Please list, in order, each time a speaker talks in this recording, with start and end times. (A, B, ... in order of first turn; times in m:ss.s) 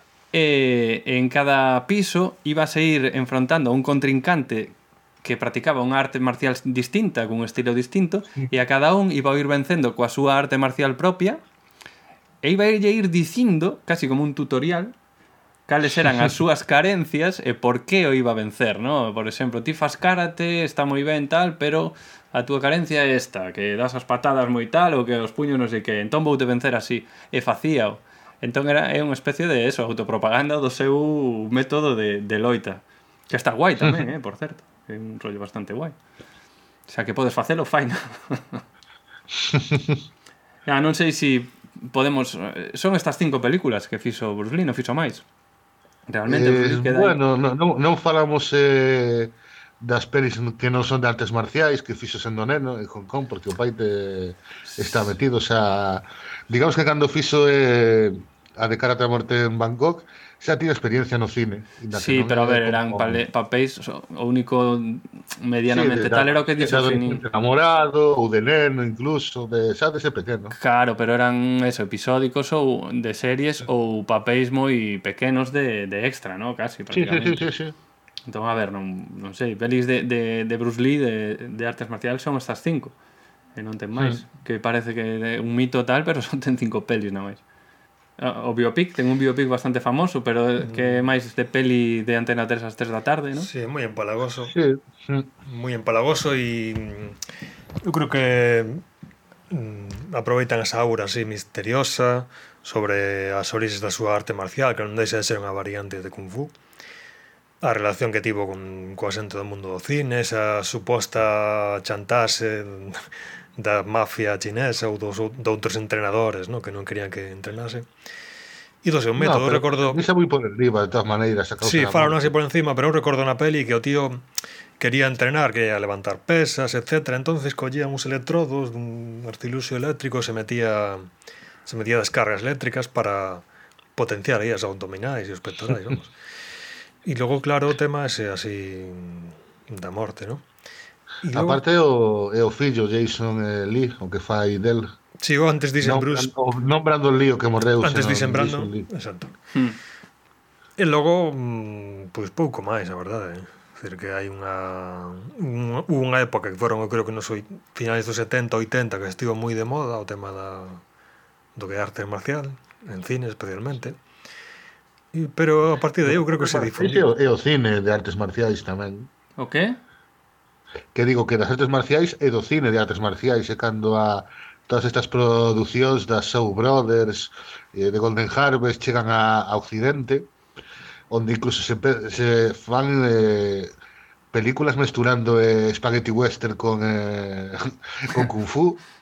0:00.3-0:11.4 A
0:12.4-0:14.9 A
0:15.7-0:36.0 A
0:36.9-0:38.6 A
0:39.4-0:40.0 B
0:40.7-0:45.2 A
0:46.1-0:47.2 A
0:46.3-1:03.2 B
0:54.6-0:55.1 A
1:01.9-1:07.2 A
1:05.7-1:10.6 B
1:10.6-1:17.4 A
1:16.9-1:17.7 B
1:18.3-1:23.0 A
1:23.6-1:27.4 A
1:28.2-1:33.5 A
1:30.6-1:31.0 C
1:33.4-1:34.5 C
1:34.5-1:35.3 B
1:35.4-1:37.2 C
1:37.8-1:38.8 C
1:39.5-1:46.6 C
1:47.6-1:57.9 C
1:58.8-2:00.0 C
1:59.2-2:02.3 B
2:01.6-2:04.3 C
2:04.8-2:11.1 C
2:11.7-2:13.4 C
2:14.0-2:16.1 C
2:17.0-2:20.5 C
2:21.2-2:21.6 C
2:21.3-2:24.9 B
2:25.2-2:26.3 C
2:25.8-2:28.9 B
2:27.8-2:29.4 C
2:30.8-2:40.8 C
2:41.6-2:44.0 C
2:45.1-2:47.1 C
2:46.1-2:49.1 B
2:49.4-2:49.8 A
2:50.9-3:00.3 B
3:01.1-3:03.7 B
3:04.3-3:08.8 B